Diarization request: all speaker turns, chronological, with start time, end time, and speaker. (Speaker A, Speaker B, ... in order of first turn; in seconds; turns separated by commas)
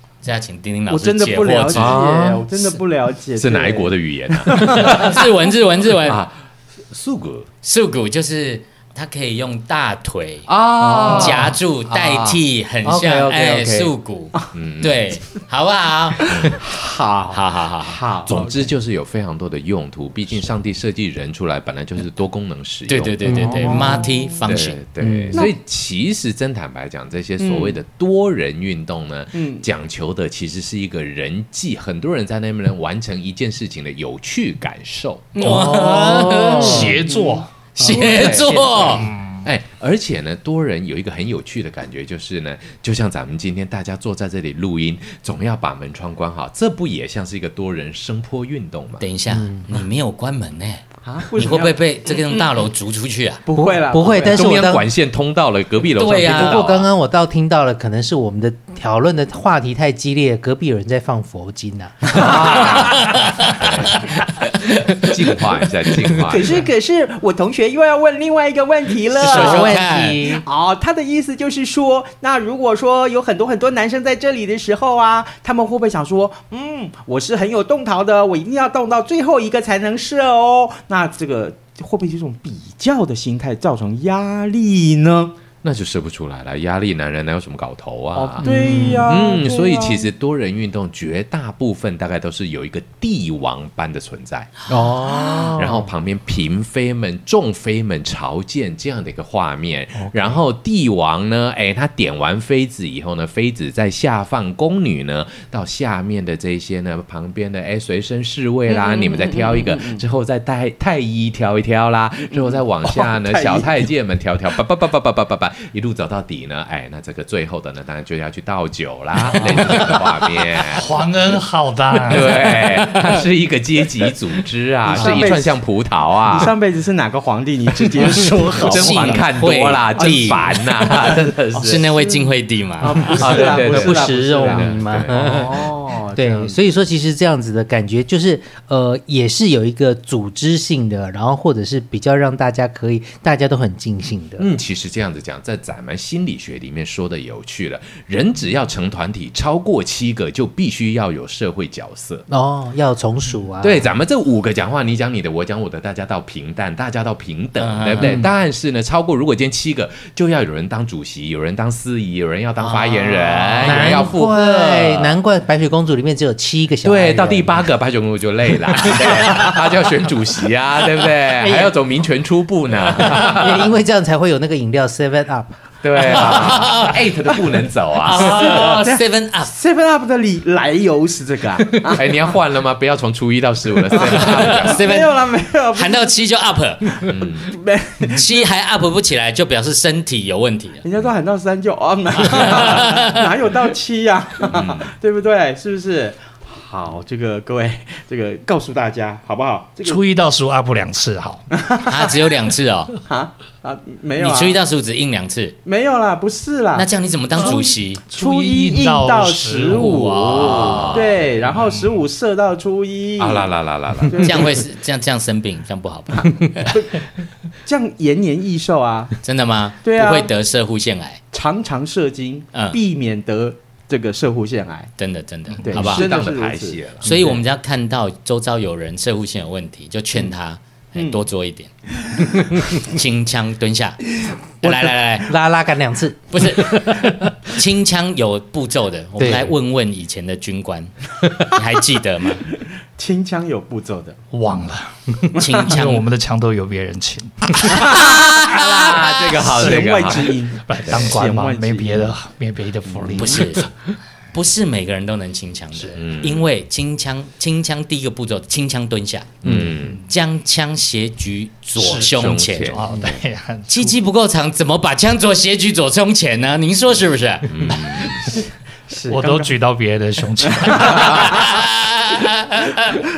Speaker A: 0.2-2.0, Speaker B: 0.9-5.0, Speaker C: 1.7-2.8, Speaker C: 3.4-5.2, Speaker A: 4.6-6.2, Speaker C: 6.0-6.4, Speaker C: 6.9-7.5, Speaker A: 7.6-10.5, Speaker C: 10.5-13.8, Speaker D: 10.8-11.6, Speaker A: 11.1-16.3, Speaker D: 12.8-13.9, Speaker C: 14.5-15.1, Speaker B: 16.2-18.5, Speaker C: 16.3-16.6, Speaker A: 17.3-18.0, Speaker C: 18.3-23.4, Speaker A: 22.9-24.8, Speaker D: 23.2-24.1, Speaker B: 23.3-24.2, Speaker C: 24.5-35.4, Speaker D: 25.0-25.5, Speaker B: 27.4-27.8, Speaker B: 29.3-29.7, Speaker B: 35.4-35.7, Speaker A: 35.4-37.0, Speaker D: 35.4-37.0, Speaker E: 35.6-37.5, Speaker B: 37.1-37.4, Speaker A: 37.8-39.1, Speaker C: 37.8-49.0, Speaker E: 38.2-39.4, Speaker A: 49.0-53.4, Speaker D: 49.3-49.8, Speaker B: 51.0-51.8, Speaker B: 53.5-54.6, Speaker D: 53.5-54.9, Speaker C: 54.3-56.9, Speaker A: 56.0-56.8, Speaker D: 56.2-62.7, Speaker C: 62.1-63.0, Speaker A: 62.2-65.2, Speaker B: 62.2-62.8, Speaker C: 63.5-64.0, Speaker C: 65.0-66.6, Speaker B: 66.3-85.3, Speaker D: 69.2-70.5, Speaker A: 69.2-70.2, Speaker C: 85.6-88.5, Speaker B: 88.2-90.1, Speaker D: 88.4-89.2, Speaker C: 89.0-94.5, Speaker D: 94.7-95.9, Speaker C: 95.6-120.9, Speaker D: 100.0-100.3, Speaker B: 108.7-110.0, Speaker B: 112.3-113.8, Speaker E: 119.3-120.1, Speaker E: 120.6-123.1, Speaker C: 122.1-126.5, Speaker B: 124.9-125.6, Speaker B: 126.3-129.2, Speaker C: 128.6-131.9, Speaker A: 128.7-130.4, Speaker B: 129.9-136.6, Speaker A: 131.6-133.4, Speaker C: 133.2-135.2, Speaker D: 133.2-144.5, Speaker C: 144.4-152.2, Speaker D: 152.3-153.9, Speaker C: 153.6-165.2, Speaker A: 157.6-158.2, Speaker D: 158.0-158.3, Speaker A: 162.6-164.2, Speaker D: 163.6-167.7, Speaker C: 166.8-173.7, Speaker D: 169.0-169.6, Speaker D: 171.4-171.8, Speaker D: 172.9-176.1, Speaker C: 175.8-178.7, Speaker A: 176.1-177.0, Speaker A: 178.0-179.5, Speaker B: 178.1-182.2, Speaker C: 181.9-184.8, Speaker B: 183.9-186.2, Speaker A: 184.0-187.2, Speaker C: 187.0-187.5, Speaker B: 187.4-188.3, Speaker A: 188.0-190.8, Speaker B: 190.8-200.0, Speaker A: 192.4-193.0, Speaker C: 194.4-194.9, Speaker E: 199.8-201.5, Speaker B: 201.6-201.9, Speaker A: 201.8-203.0, Speaker B: 203.1-204.6, Speaker A: 204.2-205.6, Speaker B: 205.7-214.6, Speaker A: 206.7-208.0, Speaker E: 208.0-210.8, Speaker A: 209.8-211.1, Speaker C: 210.3-211.2, Speaker C: 213.2-214.2, Speaker A: 214.2-216.8, Speaker B: 216.7-217.1, Speaker B: 217.7-219.2, Speaker A: 219.2-221.2, Speaker B: 219.8-220.3, Speaker B: 221.3-224.9, Speaker A: 222.5-222.8, Speaker A: 225.0-226.1, Speaker B: 225.6-226.8, Speaker C: 225.7-227.1, Speaker A: 227.0-231.7, Speaker D: 227.1-227.4, Speaker A: 232.5-234.0, Speaker A: 234.6-235.3, Speaker D: 234.6-237.2, Speaker A: 236.3-242.5, Speaker D: 239.2-239.5, Speaker B: 243.0-244.2, Speaker E: 244.3-248.0, Speaker A: 245.4-246.0, Speaker A: 247.8-249.0, Speaker C: 248.5-251.2, Speaker B: 248.8-252.2, Speaker E: 250.5-253.7, Speaker A: 253.1-253.7, Speaker A: 254.3-259.3, Speaker C: 255.9-256.5, Speaker C: 259.4-260.1, Speaker A: 260.1-262.9, Speaker C: 261.8-262.9, Speaker E: 262.7-263.9, Speaker A: 263.7-267.6, Speaker C: 267.5-268.3, Speaker B: 268.1-269.6, Speaker E: 269.1-271.3, Speaker B: 270.4-271.2, Speaker A: 270.8-272.7